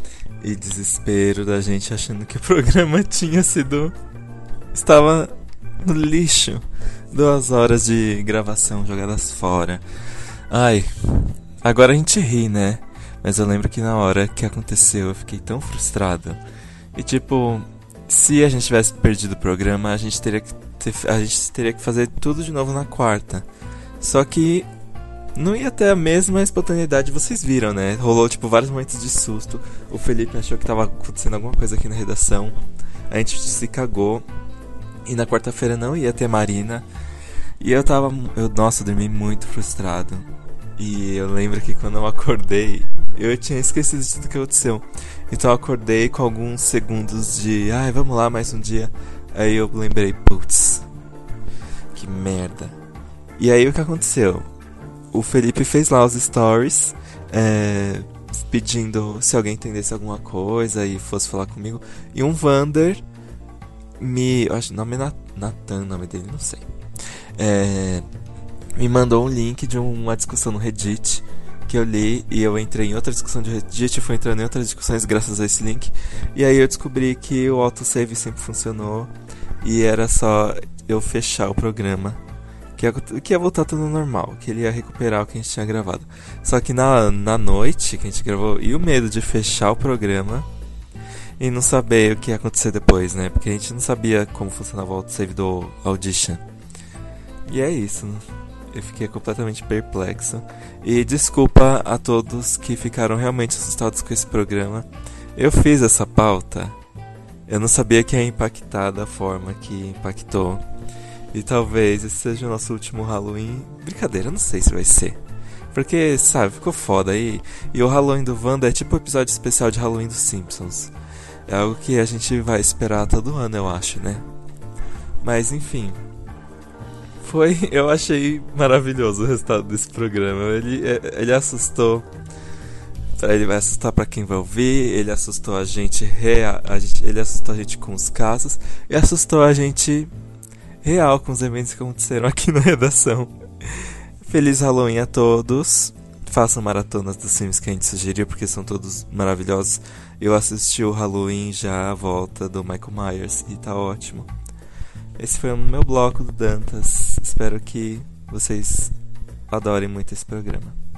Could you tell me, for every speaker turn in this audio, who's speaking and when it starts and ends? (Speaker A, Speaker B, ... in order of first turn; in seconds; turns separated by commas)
Speaker A: 0.4-3.9, Speaker A: 4.7-9.8, Speaker A: 10.5-16.4, Speaker A: 16.9-23.4, Speaker A: 24.0-24.7, Speaker A: 25.4-32.5, Speaker A: 33.1-34.2, Speaker A: 35.1-36.9, Speaker A: 37.6-50.9, Speaker A: 51.9-52.8, Speaker A: 53.4-54.5, Speaker A: 55.1-63.0, Speaker A: 64.0-66.7, Speaker A: 67.4-68.0, Speaker A: 68.8-79.1, Speaker A: 79.6-82.2, Speaker A: 82.8-90.5, Speaker A: 91.4-96.4, Speaker A: 97.5-106.8, Speaker A: 107.5-110.6, Speaker A: 111.3-115.2, Speaker A: 115.7-120.9, Speaker A: 121.5-124.2, Speaker A: 125.2-126.0, Speaker A: 127.2-132.1, Speaker A: 133.2-140.1, Speaker A: 140.8-154.3, Speaker A: 155.2-158.9, Speaker A: 159.5-160.7